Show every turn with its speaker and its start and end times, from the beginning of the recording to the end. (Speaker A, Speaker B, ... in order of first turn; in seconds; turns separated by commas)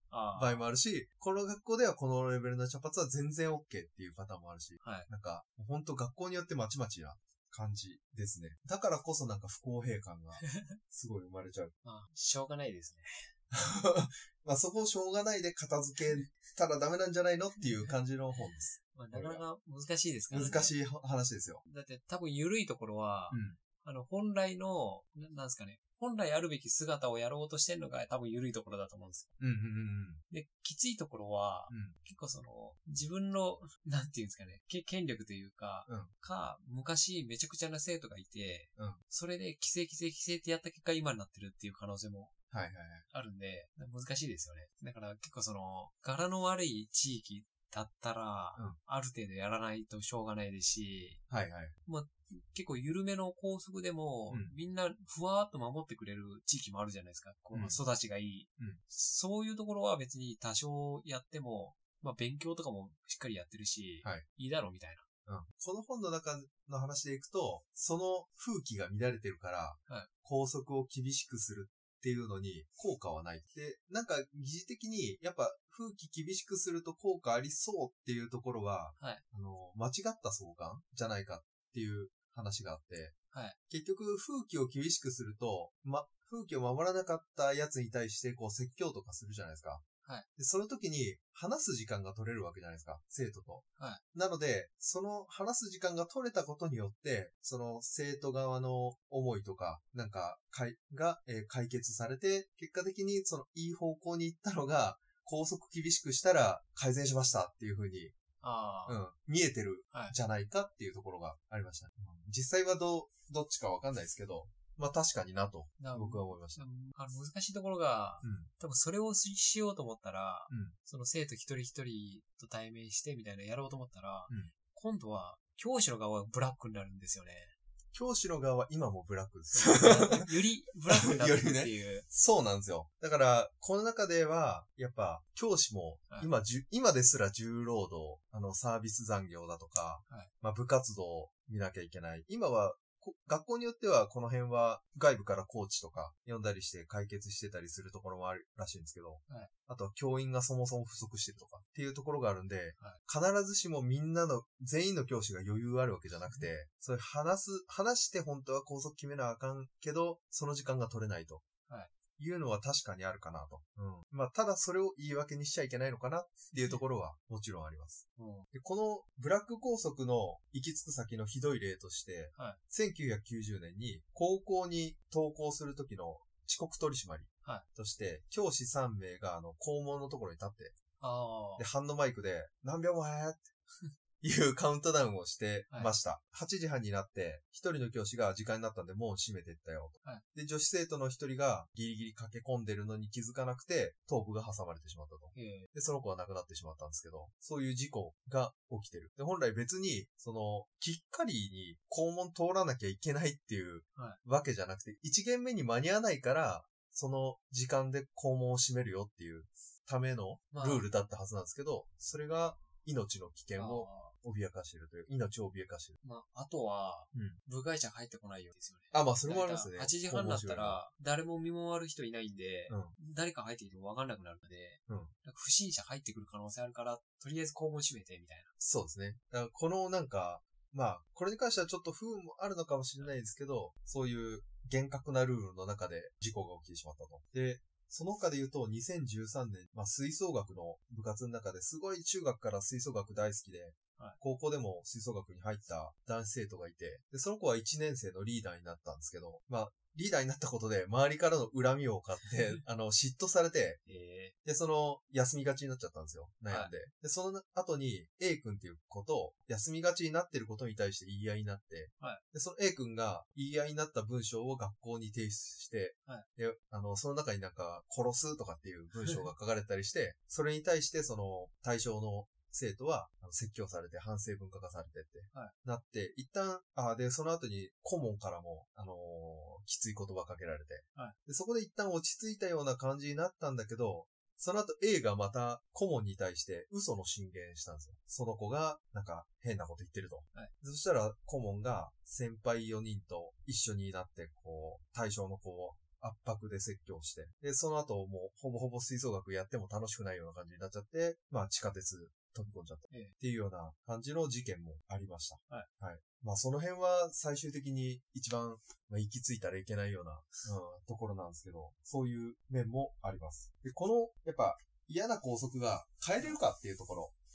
Speaker A: 0.1-0.7, Speaker B: 0.3-11.7, Speaker A: 4.8-5.1, Speaker A: 10.4-10.8, Speaker A: 11.8-13.3, Speaker B: 13.5-19.4, Speaker A: 18.4-20.8, Speaker B: 20.3-21.6, Speaker A: 21.6-29.3, Speaker B: 23.3-23.6, Speaker B: 29.4-30.2, Speaker A: 30.3-42.3, Speaker B: 31.7-32.0, Speaker B: 35.9-36.1, Speaker B: 42.5-43.1, Speaker A: 43.1-51.2, Speaker B: 51.3-51.7, Speaker A: 51.9-65.0, Speaker B: 57.5-57.8, Speaker B: 65.3-83.2, Speaker A: 79.0-79.2, Speaker A: 83.3-83.6, Speaker B: 83.7-89.8, Speaker B: 90.4-108.1, Speaker A: 93.8-94.0, Speaker A: 108.4-109.0, Speaker B: 108.9-116.6, Speaker A: 109.9-110.2, Speaker A: 115.8-127.5, Speaker B: 118.2-118.5, Speaker B: 120.5-120.8, Speaker B: 127.9-130.3, Speaker A: 129.5-132.1, Speaker B: 130.9-161.4, Speaker A: 156.2-156.5, Speaker B: 162.2-180.8, Speaker A: 166.6-166.8, Speaker A: 168.2-168.5, Speaker A: 181.0-181.7, Speaker B: 181.6-183.5, Speaker B: 184.2-216.0, Speaker A: 195.3-195.7, Speaker A: 210.5-210.9, Speaker A: 213.6-214.2, Speaker A: 216.0-228.5, Speaker B: 218.9-220.8, Speaker B: 222.7-222.9, Speaker B: 228.6-253.8, Speaker A: 252.3-252.6, Speaker A: 253.9-254.3, Speaker B: 254.4-317.1, Speaker A: 269.0-269.3